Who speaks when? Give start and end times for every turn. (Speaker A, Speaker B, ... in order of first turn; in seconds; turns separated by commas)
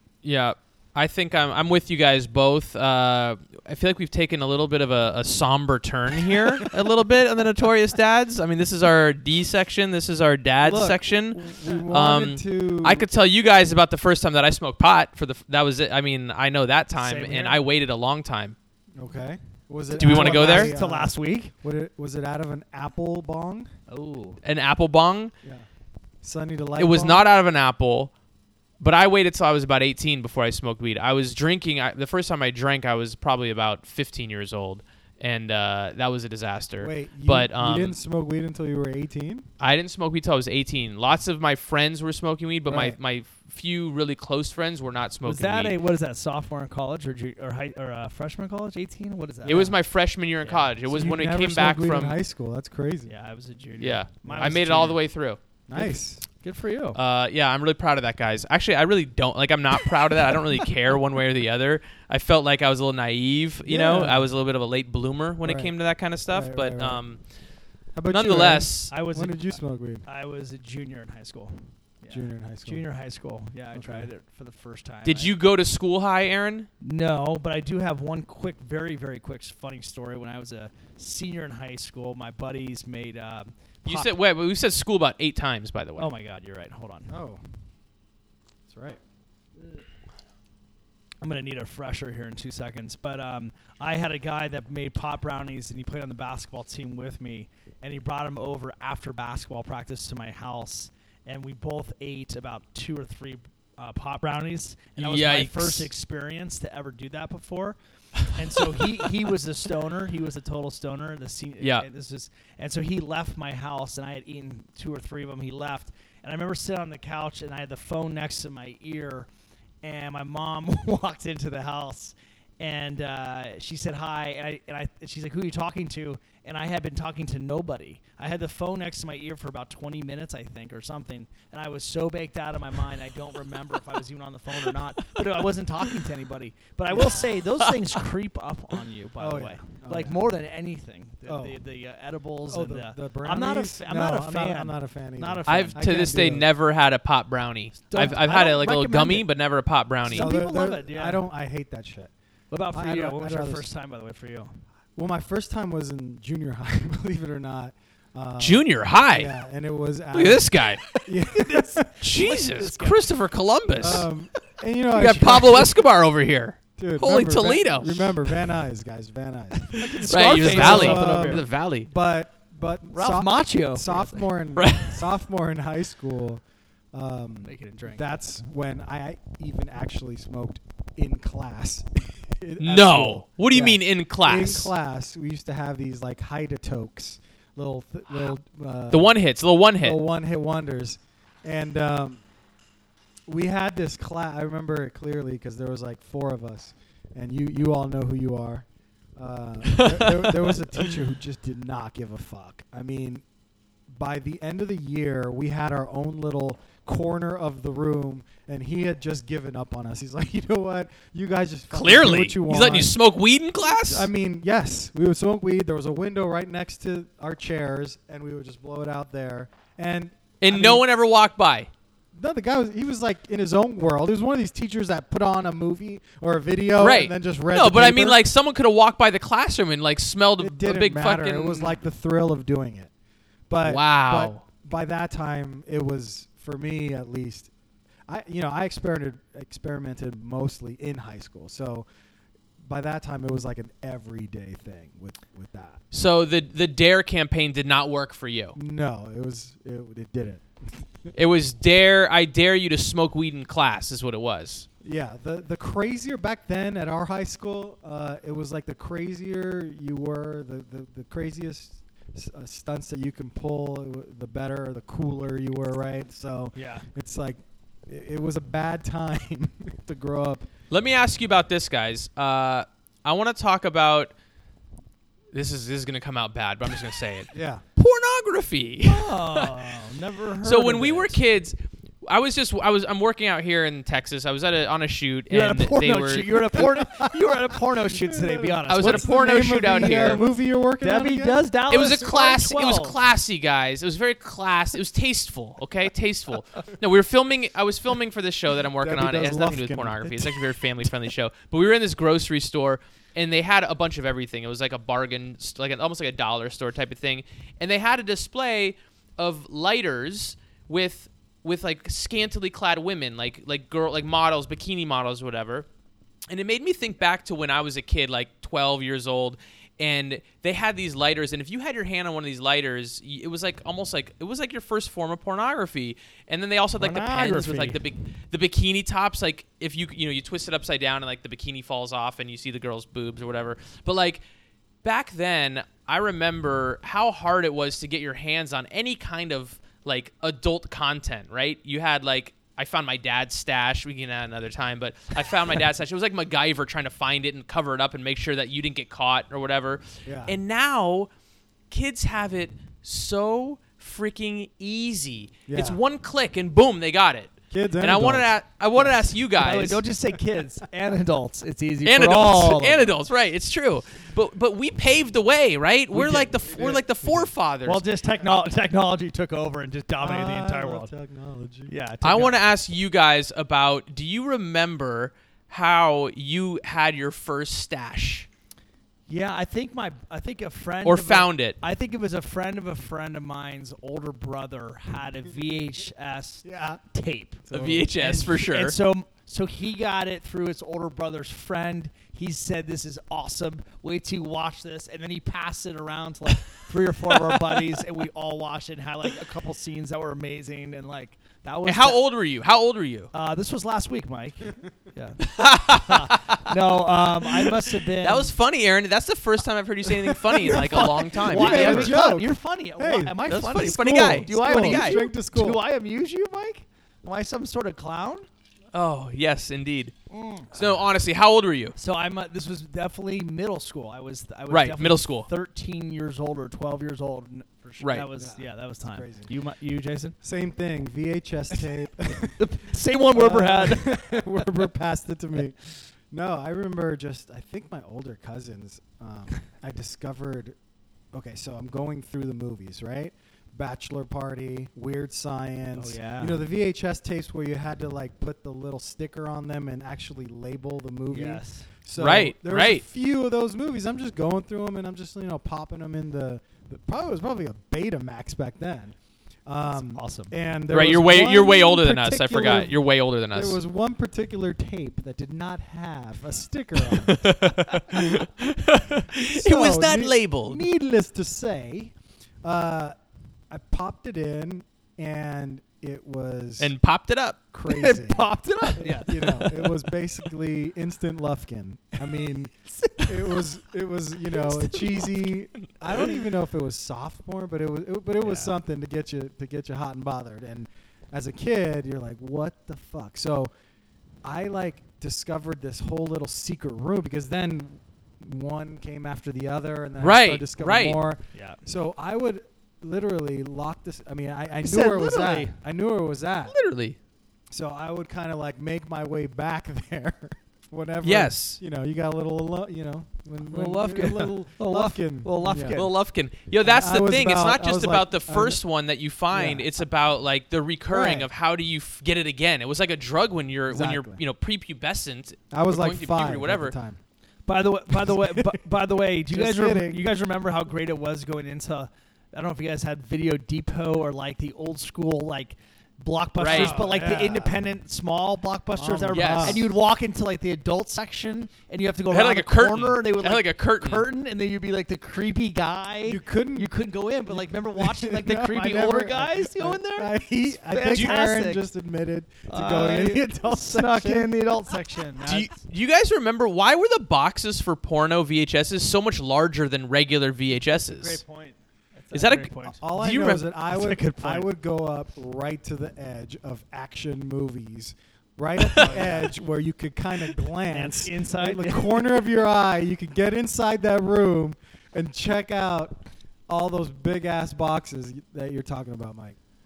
Speaker A: 0.2-18.6, Speaker B: 6.3-6.7, Speaker B: 10.6-13.1, Speaker C: 17.0-17.6, Speaker B: 18.9-23.7, Speaker C: 19.9-21.5, Speaker A: 20.0-20.7, Speaker C: 23.9-24.4, Speaker A: 24.4-25.3, Speaker B: 26.2-27.3, Speaker A: 26.8-28.1, Speaker A: 28.8-38.0, Speaker B: 36.8-39.5, Speaker A: 39.6-45.8, Speaker B: 42.7-43.0, Speaker C: 45.2-49.7, Speaker A: 49.4-52.2, Speaker C: 50.4-50.7, Speaker B: 50.9-53.1, Speaker C: 53.1-55.0, Speaker A: 53.8-55.4, Speaker B: 54.2-54.7, Speaker B: 55.7-56.2, Speaker C: 55.7-57.0, Speaker A: 56.9-67.2, Speaker B: 63.6-64.3, Speaker B: 65.4-65.7, Speaker B: 66.3-67.0, Speaker B: 67.9-70.0, Speaker A: 68.1-68.9, Speaker C: 68.9-69.5, Speaker C: 70.0-75.3, Speaker B: 72.1-72.8, Speaker B: 73.7-74.1, Speaker A: 75.0-76.7, Speaker C: 76.8-84.1, Speaker A: 83.8-86.1, Speaker C: 86.0-87.1, Speaker B: 87.1-87.4, Speaker B: 88.7-89.0, Speaker C: 91.2-119.3, Speaker A: 105.0-105.9, Speaker A: 111.6-111.8, Speaker C: 119.8-146.2, Speaker B: 139.2-140.2, Speaker B: 141.2-141.6, Speaker B: 142.5-146.5, Speaker A: 145.5-150.3, Speaker C: 147.9-149.3, Speaker C: 150.0-151.2, Speaker B: 150.1-152.1, Speaker C: 152.5-154.6, Speaker B: 152.7-153.7, Speaker B: 154.9-162.3, Speaker A: 158.4-159.3, Speaker A: 160.1-160.8, Speaker C: 161.2-163.0, Speaker A: 162.0-164.1, Speaker B: 163.8-165.8, Speaker A: 164.9-168.1, Speaker B: 166.8-176.4, Speaker C: 169.6-171.4, Speaker A: 170.0-171.9, Speaker C: 172.9-174.3, Speaker A: 174.6-175.0, Speaker B: 176.9-189.2, Speaker C: 177.4-178.1, Speaker A: 182.6-184.7, Speaker A: 188.9-190.0, Speaker B: 189.8-192.2, Speaker B: 193.3-198.7, Speaker B: 199.2-203.2, Speaker A: 199.7-200.7, Speaker B: 203.9-212.9, Speaker A: 211.7-214.1, Speaker B: 213.8-220.8, Speaker A: 220.4-221.7, Speaker B: 222.1-228.2, Speaker A: 226.8-231.7, Speaker B: 230.4-232.9, Speaker B: 233.5-237.5, Speaker A: 233.6-234.4, Speaker B: 238.1-241.9, Speaker B: 242.6-245.8, Speaker A: 245.9-248.6, Speaker B: 248.5-251.1, Speaker A: 251.1-254.7, Speaker B: 254.8-270.5, Speaker C: 266.5-266.9, Speaker A: 270.7-274.1, Speaker A: 275.3-279.6, Speaker B: 277.3-277.6, Speaker C: 278.8-281.2, Speaker A: 280.4-286.6, Speaker C: 285.3-290.2, Speaker B: 286.8-287.3, Speaker B: 287.9-291.4, Speaker A: 288.7-290.2, Speaker C: 290.8-293.0, Speaker A: 291.7-315.7, Speaker B: 298.8-300.4, Speaker A: 316.3-334.2, Speaker C: 326.8-327.8, Speaker A: 334.8-351.1, Speaker B: 350.0-350.3, Speaker A: 351.7-359.8, Speaker B: 355.5-355.8, Speaker B: 357.5-359.0, Speaker C: 359.3-362.9, Speaker A: 361.8-367.8, Speaker C: 365.9-366.8, Speaker B: 366.5-367.3, Speaker C: 367.6-370.9, Speaker B: 370.0-371.7, Speaker C: 371.7-372.4, Speaker A: 372.0-378.3, Speaker C: 379.1-402.0, Speaker A: 380.8-381.6, Speaker B: 386.4-386.8, Speaker B: 387.5-388.0, Speaker A: 387.5-388.8, Speaker A: 401.6-403.1, Speaker C: 403.1-408.3, Speaker A: 405.2-406.5, Speaker A: 408.0-412.0, Speaker B: 410.1-415.6, Speaker C: 410.3-418.3, Speaker A: 413.3-415.0, Speaker A: 418.7-419.9, Speaker C: 420.1-420.5, Speaker A: 420.5-421.7, Speaker C: 421.8-430.1, Speaker A: 424.5-425.3, Speaker A: 427.8-428.1, Speaker B: 428.2-429.3, Speaker B: 430.2-432.4, Speaker C: 432.2-434.4, Speaker B: 433.1-435.6, Speaker B: 436.1-440.6, Speaker B: 441.1-462.7, Speaker C: 445.7-446.4, Speaker C: 451.1-451.7, Speaker A: 452.0-452.8, Speaker C: 459.9-460.3, Speaker A: 460.7-463.6, Speaker B: 463.3-468.3, Speaker A: 467.0-470.6, Speaker B: 469.2-472.9, Speaker B: 473.5-476.7, Speaker A: 476.6-477.4, Speaker B: 477.5-493.5, Speaker C: 477.7-479.7, Speaker C: 482.7-483.1, Speaker C: 488.2-488.5, Speaker B: 494.2-506.6, Speaker A: 500.0-501.0, Speaker C: 501.3-501.6, Speaker C: 504.6-505.6, Speaker A: 506.5-507.0, Speaker B: 507.5-515.8, Speaker A: 511.0-511.6, Speaker C: 513.4-515.9, Speaker A: 515.7-526.7, Speaker B: 516.6-518.6, Speaker B: 519.3-519.7, Speaker B: 520.9-521.3, Speaker B: 523.7-524.2, Speaker B: 525.5-527.0, Speaker C: 527.5-551.6, Speaker B: 527.9-528.6, Speaker B: 529.3-530.0, Speaker A: 536.4-536.8, Speaker B: 536.5-537.6, Speaker B: 538.7-539.6, Speaker A: 539.1-539.6, Speaker A: 542.1-544.1, Speaker B: 546.0-554.3, Speaker C: 552.5-555.5, Speaker A: 555.2-561.2, Speaker C: 560.8-564.5, Speaker A: 562.1-563.5, Speaker B: 562.7-579.4, Speaker A: 568.6-568.9, Speaker C: 568.8-569.3, Speaker C: 570.7-572.2